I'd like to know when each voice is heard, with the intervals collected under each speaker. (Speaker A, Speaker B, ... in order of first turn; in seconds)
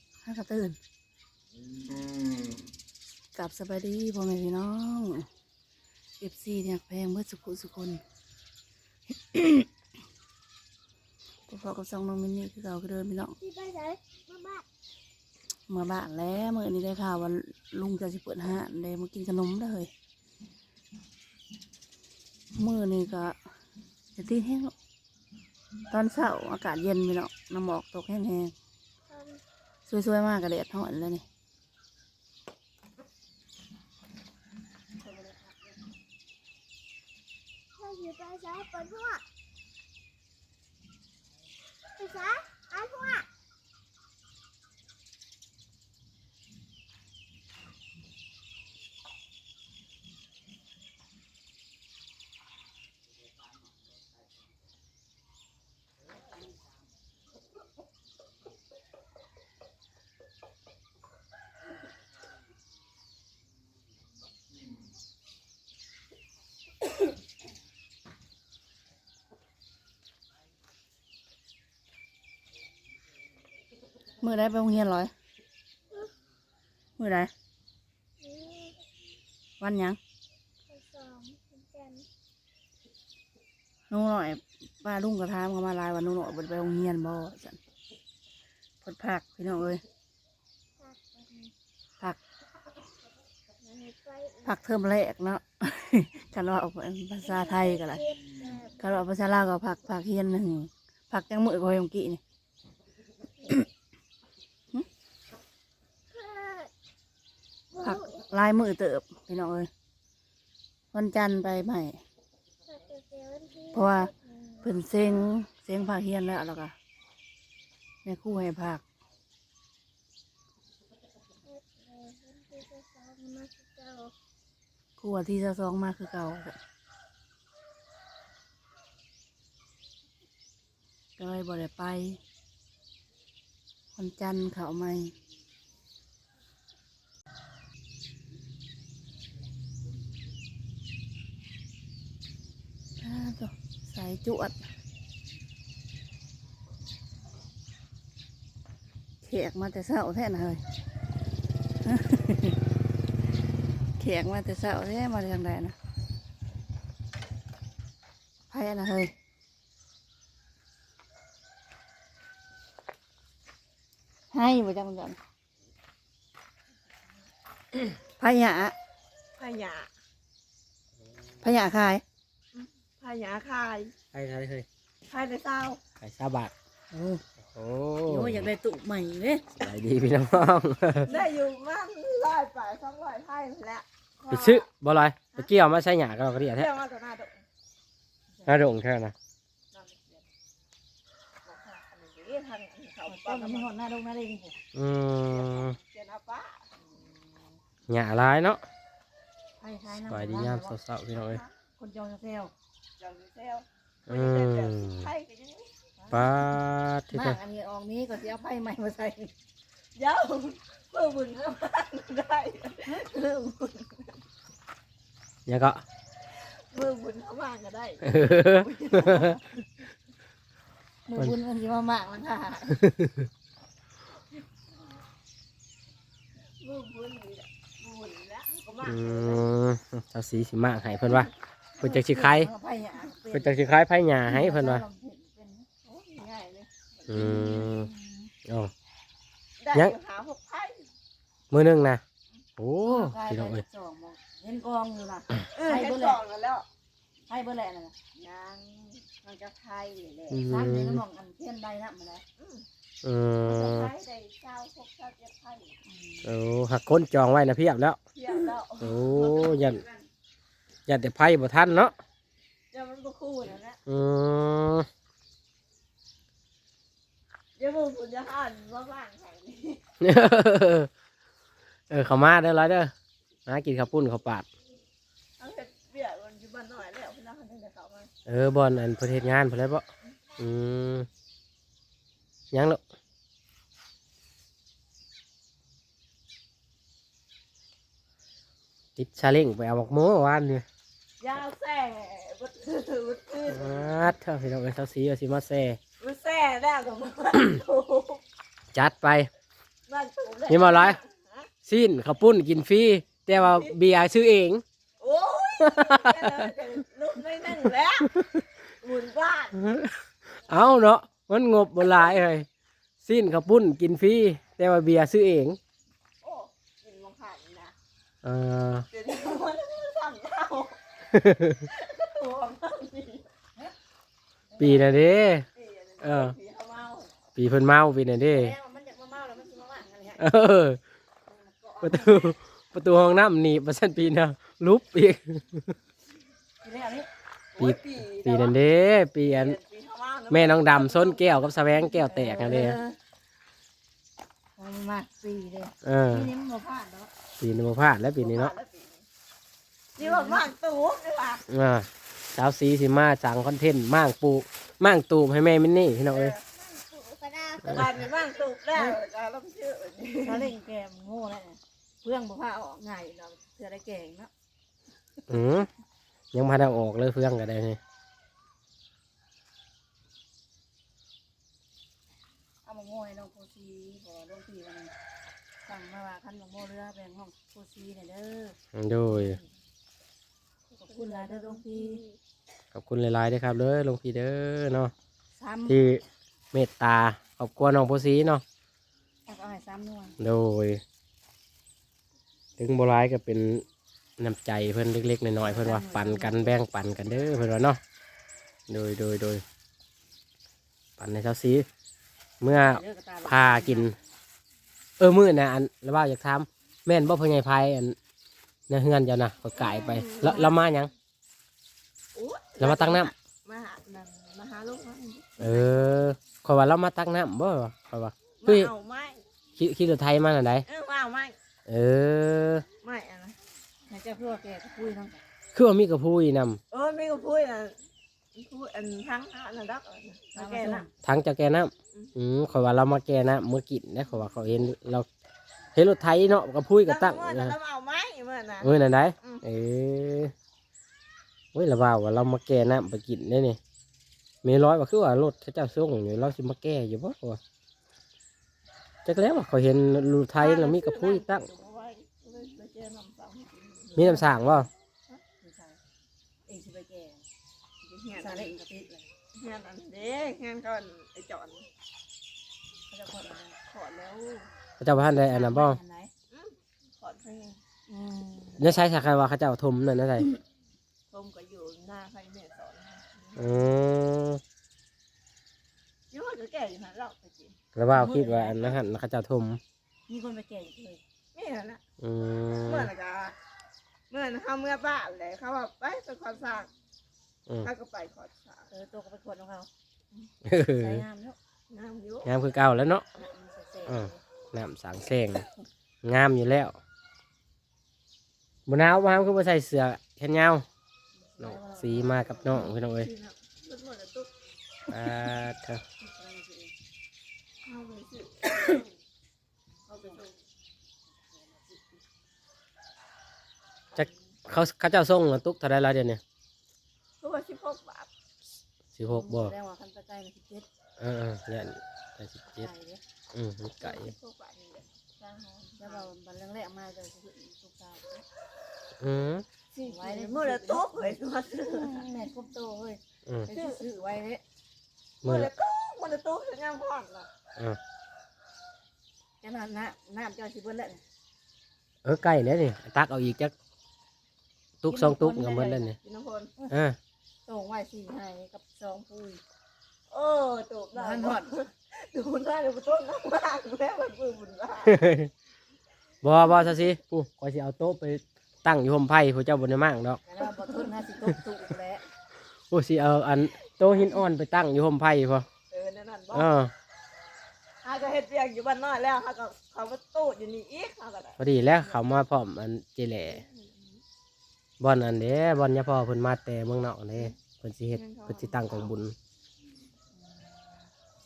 Speaker A: 0.2-0.8, 3.4-5.3, 6.2-8.0, 9.3-9.7, 11.5-13.4, 15.7-19.9, 22.6-23.4, 24.2-24.7, 25.9-28.5, 29.9-31.2, 35.0-35.6, 74.2-75.1, 77.0-77.3, 79.6-80.0, 83.9-87.6, 88.8-89.8, 94.4-98.0, 98.8-102.2, 107.8-109.7, 110.9-112.0, 113.7-114.1, 114.6-116.7, 118.0-118.8, 125.0-126.6, 131.2-132.2, 133.9-135.1, 143.0-144.6, 149.2-150.6, 151.8-152.6, 154.0-155.8, 158.5-159.1, 164.3-165.2, 168.2-168.8, 171.4-172.0, 176.9-177.2, 178.1-179.5, 188.4-188.6, 193.1-194.6, 199.6-202.5, 206.0-206.3, 207.1-209.3, 213.0-213.7, 221.1-222.8, 231.8-233.6, 234.2-235.7, 237.1-238.3, 242.9-246.2, 247.3-247.9, 249.2-252.2, 255.8-256.3, 259.1-260.1, 324.5-324.9, 328.3-330.2, 331.3-332.4, 336.6-337.1, 341.9-342.7, 344.6-347.1, 350.0-350.5, 356.5-357.9, 360.2-364.3, 372.6-374.9, 375.7-378.6, 379.1-379.5, 380.8-382.0, 385.4-385.9, 389.3-390.2, 395.4-396.6, 402.5-403.9, 423.9-425.2, 430.3-430.9, 453.9-454.3, 455.4-455.8, 456.5-457.2, 458.1-459.1, 462.9-463.6, 465.2-466.1, 467.9-468.7, 477.9-478.8, 480.1-481.0, 488.7-489.7, 490.6-491.4, 493.1-494.2, 501.2-502.6, 506.0-506.7, 511.1-511.9, 519.0-520.7, 522.5-523.0, 525.8-528.3, 529.8-534.4, 539.4-541.0, 544.9-546.0, 547.5-549.4, 550.9-551.5, 560.3-562.0
Speaker B: 13.4-14.7, 29.1-29.4, 37.8-39.2, 42.0-43.3, 78.2-78.8, 80.7-82.1, 90.8-91.5, 93.6-94.6, 97.2-99.1, 106.1-106.7, 107.7-108.3, 112.7-114.8, 121.4-124.1
Speaker C: 169.4-169.9, 172.6-173.9, 175.1-175.8, 181.1-184.7, 186.5-187.4, 189.7-190.3, 191.4-193.7, 195.3-196.8, 203.0-205.7, 210.0-214.0, 216.7-219.4, 226.6-229.5, 235.8-237.4, 239.6-240.9, 245.5-246.7, 248.2-249.1, 252.4-252.7, 253.4-255.8, 258.1-259.1, 262.7-263.8, 267.6-269.8, 275.4-278.1, 291.2-294.1, 296.0-298.2, 299.9-301.5, 303.3-303.8, 305.0-308.2, 308.8-309.6, 316.2-317.8, 318.9-320.8, 321.7-323.3, 325.5-327.2, 337.5-338.6, 339.2-341.3, 342.2-343.0, 348.2-349.1, 350.0-351.4, 356.1-356.4, 357.6-360.5, 380.9-382.2, 409.5-410.6, 412.1-416.0, 418.4-419.2, 420.7-421.4, 422.8-423.4, 426.7-427.8, 428.4-430.9, 436.9-439.4, 450.4-454.2, 457.8-458.6, 459.4-461.7, 463.7-464.5, 466.3-467.6, 471.1-473.7, 476.1-477.6, 481.3-481.8, 482.6-483.4, 484.1-486.7, 487.6-488.7, 491.7-492.3, 502.5-504.3, 507.6-508.9, 509.9-510.4, 517.2-518.1, 523.8-526.1, 529.8-532.0, 533.5-533.8, 535.2-537.3, 546.0-546.5, 550.1-555.0, 560.4-560.9, 563.8-564.2, 565.7-566.5, 567.8-572.0, 573.2-574.0, 577.9-578.9
Speaker D: 174.1-174.7, 176.0-176.5, 177.5-178.5, 179.5-181.1, 184.3-186.7, 188.4-189.2, 194.7-195.8, 197.9-198.6, 200.0-201.4, 204.1-205.1, 206.1-207.4, 215.5-215.8, 218.0-219.4, 222.8-223.3, 228.8-232.5, 233.3-234.8, 237.1-237.9, 238.5-238.7, 241.5-242.0, 242.6-243.6, 250.3-251.0, 253.0-253.9, 256.2-258.0, 258.8-259.8, 260.9-261.9, 263.9-264.9, 270.0-270.9, 271.9-272.9, 273.5-274.5, 278.3-279.9, 280.4-281.1, 282.5-282.8, 289.0-290.6, 293.5-295.8, 298.7-299.3, 300.5-301.0, 301.7-304.6, 305.6-306.5, 309.6-309.9, 310.5-312.5, 313.0-315.6, 318.2-318.9, 321.1-321.6, 324.6-325.5, 326.0-326.4, 327.4-328.5, 330.2-330.8, 331.8-335.7, 337.6-339.6, 340.3-342.8, 345.8-346.3, 347.4-348.6, 351.5-356.4, 365.3-365.7, 366.3-367.8, 378.7-379.4, 382.7-384.9, 385.7-388.4, 390.2-390.8, 392.6-393.6, 394.2-397.8, 398.7-399.4, 401.0-401.7, 402.4-404.0, 405.0-408.0, 408.7-410.9, 412.6-413.1, 415.4-418.7, 419.6-420.6, 421.7-422.7, 425.5-426.6, 431.0-435.1, 435.8-437.6, 438.6-440.3, 441.5-443.6, 444.4-447.4, 449.1-451.5, 454.0-454.7, 464.8-465.8, 468.6-470.3, 473.4-474.4, 477.8-479.6, 482.0-482.9, 490.4-491.1, 492.2-493.1, 493.9-495.5, 496.0-496.8, 498.7-500.7, 501.4-503.1, 504.9-505.8, 514.0-516.2, 518.9-519.5, 521.0-522.7, 523.3-524.1, 529.0-529.5, 533.3-533.5, 535.2-535.5, 542.0-543.5, 544.8-546.0, 546.7-547.0, 554.9-555.3, 556.2-560.2, 562.7-565.5, 566.3-566.7, 571.4-573.4, 574.8-579.2